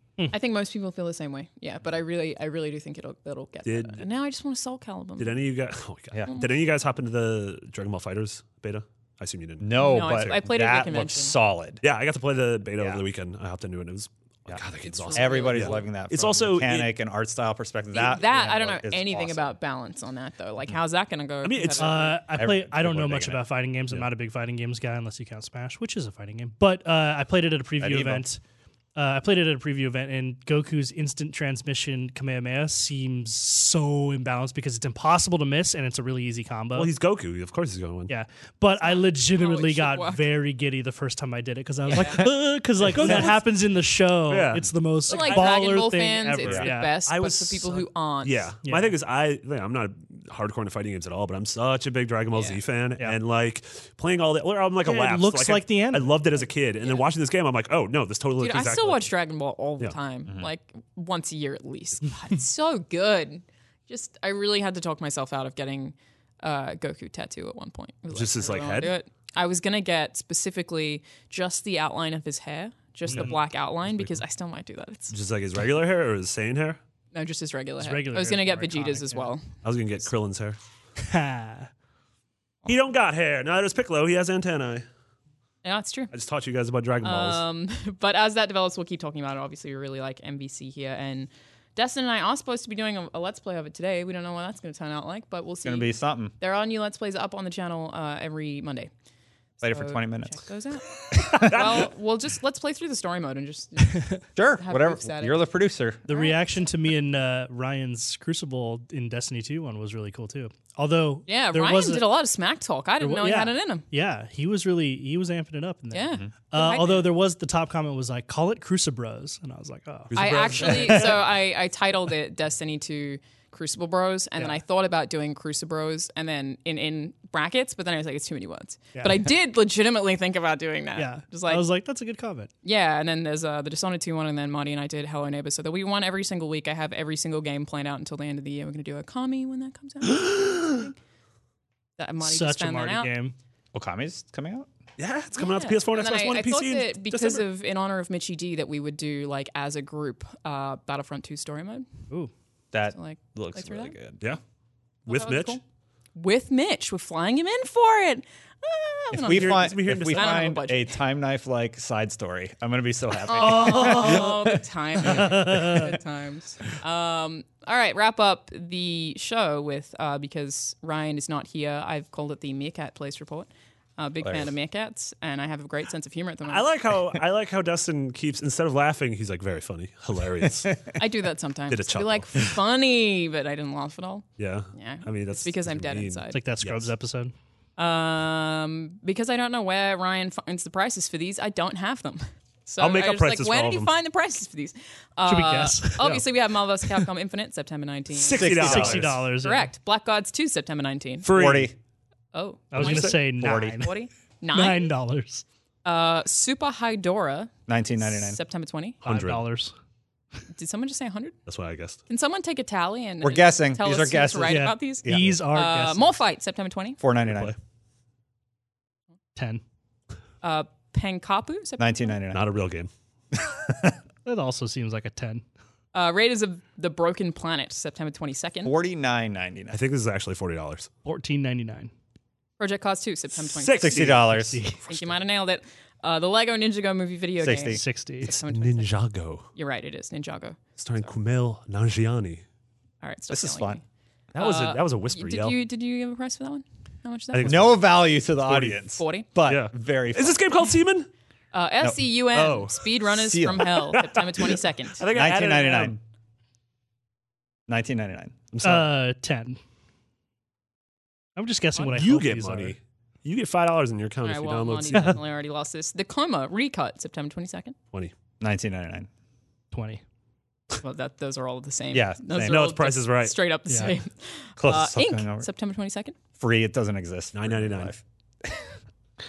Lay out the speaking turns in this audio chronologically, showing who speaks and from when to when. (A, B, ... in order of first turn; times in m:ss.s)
0:00.3-0:05.4 A
0:03.6-0:04.0 B
0:05.2-0:11.1 B
0:06.3-0:06.5 A
0:09.6-0:11.8 C
0:09.8-0:11.3 A
0:11.8-0:16.9 B
0:14.5-0:19.5 C
0:14.8-0:15.8 A
0:17.9-0:22.2 A
0:21.4-0:22.0 B
0:21.8-0:28.4 D
0:22.3-0:23.4 C
0:27.8-0:28.2 C
0:28.9-0:36.9 D
0:36.7-0:38.1 B
0:38.1-0:46.9 D
0:38.8-0:40.3 A
0:41.9-0:42.3 A
0:41.9-0:42.3 B
0:42.8-0:43.4 B
0:44.3-0:45.8 B
0:45.1-0:48.5 A
0:46.4-0:46.7 C
0:47.0-0:59.1 B
0:48.6-0:48.9 D
0:52.3-0:52.6 A
0:54.8-0:56.1 D
0:58.4-1:15.1 A
1:00.2-1:00.5 C
1:08.1-1:09.0 B
1:13.1-1:14.2 B
1:15.1-1:16.8 B
1:17.1-1:19.6 A
1:17.8-1:19.3 D
1:19.6-1:20.6 B
1:21.0-1:21.7 D
1:22.6-1:24.8 B
1:25.6-1:26.1 A
1:26.1-1:27.4 B
1:27.0-1:38.9 A
1:35.6-1:36.3 C
1:39.6-1:45.4 A
1:39.6-1:40.4 C
1:41.2-1:41.8 C
1:41.5-1:41.9 B
1:44.4-1:46.0 C
1:46.1-1:46.4 A
1:46.1-1:52.1 D
1:51.3-1:53.8 A
1:53.0-2:00.1 D
1:55.9-1:57.0 A
2:00.1-2:01.2 B
2:00.2-2:11.6 A
2:00.6-2:01.1 C
2:09.0-2:09.2 D
2:11.0-2:12.5 D
2:12.6-2:20.9 A
2:22.0-2:23.1 A
2:22.2-2:23.4 D
2:23.7-2:24.7 C
2:25.0-2:27.4 B
2:25.4-2:31.8 A
2:32.7-2:34.2 C
2:32.9-2:33.9 A
2:35.1-2:35.6 B
2:35.1-2:35.6 A
2:36.2-2:41.0 A
2:39.1-2:45.8 C
2:39.1-2:40.6 B
2:43.2-2:56.7 A
2:43.4-2:45.9 D
2:54.2-2:54.5 C
2:56.4-3:00.9 B
3:01.0-3:06.4 A
3:01.7-3:02.6 B
3:04.4-3:06.9 B
3:06.3-3:07.3 D
3:07.8-3:21.3 A
3:12.8-3:13.9 B
3:15.2-3:16.3 D
3:18.1-3:19.2 B
3:18.4-3:19.1 C
3:18.5-3:19.7 D
3:21.2-3:21.7 B
3:21.3-3:21.7 C
3:22.3-3:24.9 A
3:22.7-3:23.9 D
3:22.8-3:23.2 B
3:23.4-3:23.9 C
3:24.5-3:25.4 D
3:25.8-3:27.5 A
3:27.7-3:28.4 C
3:28.0-3:29.0 A
3:29.0-3:29.4 B
3:29.0-3:29.7 D
3:30.5-3:31.4 A
3:31.4-3:32.0 B
3:32.1-3:37.0 A
3:33.2-3:35.3 C
3:34.4-3:36.0 D
3:37.0-3:37.5 C
3:37.2-3:37.5 B
3:39.4-3:39.6 D
3:40.4-3:42.2 A
3:41.8-3:42.4 C
3:42.3-3:42.9 B
3:43.3-3:44.0 C
3:44.2-3:45.4 D
3:45.9-3:48.7 A
3:48.6-3:49.8 C
3:49.7-3:50.9 B
3:51.0-3:51.9 D
3:52.6-3:59.0 A
3:53.4-3:55.0 B
3:53.8-3:54.6 C
3:54.3-3:54.9 D
3:57.4-3:57.8 C
3:57.7-3:58.3 D
3:58.2-3:59.5 B
3:59.5-4:01.1 A
4:00.8-4:02.4 B
4:03.0-4:03.8 A
4:03.3-4:03.8 C
4:04.3-4:05.6 B
4:04.4-4:07.8 A
4:07.3-4:08.8 B
4:07.4-4:10.4 C
4:09.0-4:09.3 A
4:09.4-4:11.1 B
4:11.5-4:15.0 A
4:12.3-4:12.9 B
4:13.1-4:14.0 C
4:13.7-4:16.0 B
4:15.1-4:16.0 C
4:17.7-4:18.3 C
4:18.5-4:18.9 B
4:18.6-4:19.6 D
4:21.4-4:22.8 D
4:21.8-4:25.2 B
4:24.2-4:27.8 A
4:28.4-4:29.1 C
4:29.7-4:30.0 D
4:30.8-4:36.2 A
4:31.9-4:32.8 C
4:32.4-4:33.4 B
4:33.7-4:33.9 D
4:34.6-4:35.5 C
4:36.4-4:38.6 C
4:37.3-4:37.9 B